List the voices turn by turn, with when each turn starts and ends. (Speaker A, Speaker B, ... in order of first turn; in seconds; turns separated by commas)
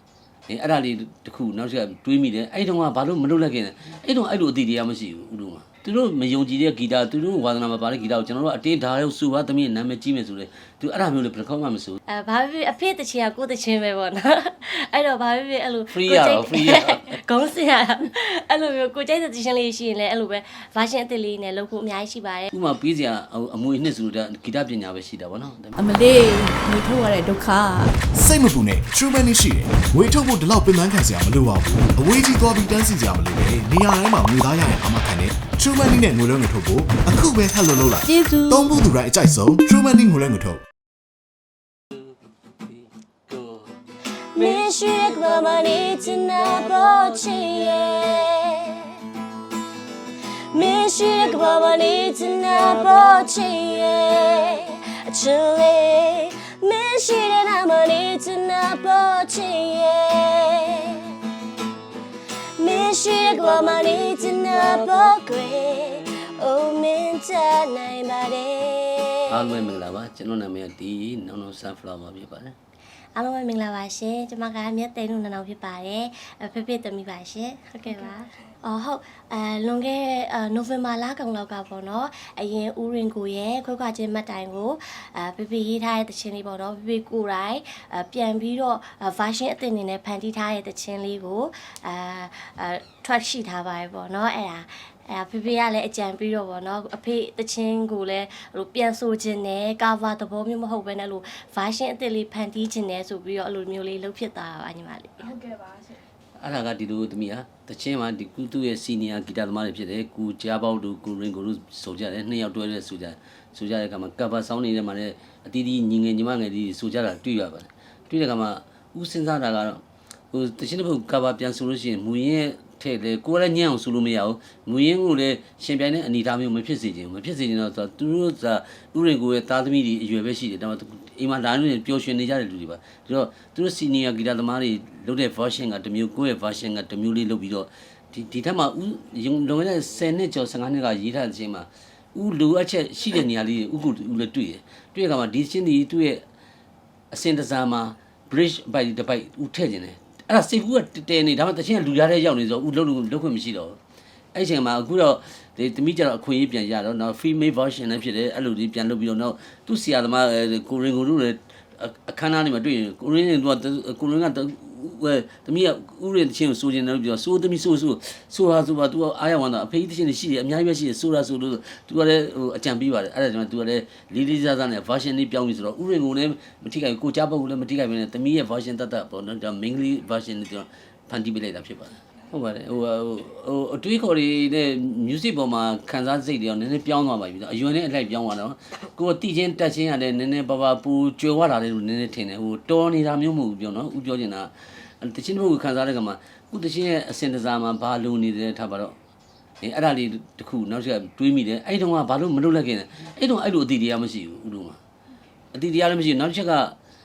Speaker A: 0.5-12.0, Speaker B: 12.1-22.5, Speaker A: 15.9-17.1, Speaker A: 22.5-25.8, Speaker C: 25.8-28.1, Speaker D: 28.1-40.6, Speaker C: 38.0-38.7, Speaker A: 43.3-43.6, Speaker B: 44.3-49.0, Speaker A: 44.6-45.6, Speaker A: 46.2-47.5, Speaker B: 50.5-61.2, Speaker B: 62.6-69.2, Speaker A: 69.3-72.5, Speaker B: 73.1-105.6, Speaker A: 106.4-119.8, Speaker A: 120.3-146.2, Speaker A: 147.1-153.8, Speaker A: 154.3-198.9, Speaker A: 199.6-204.8, Speaker A: 205.5-206.7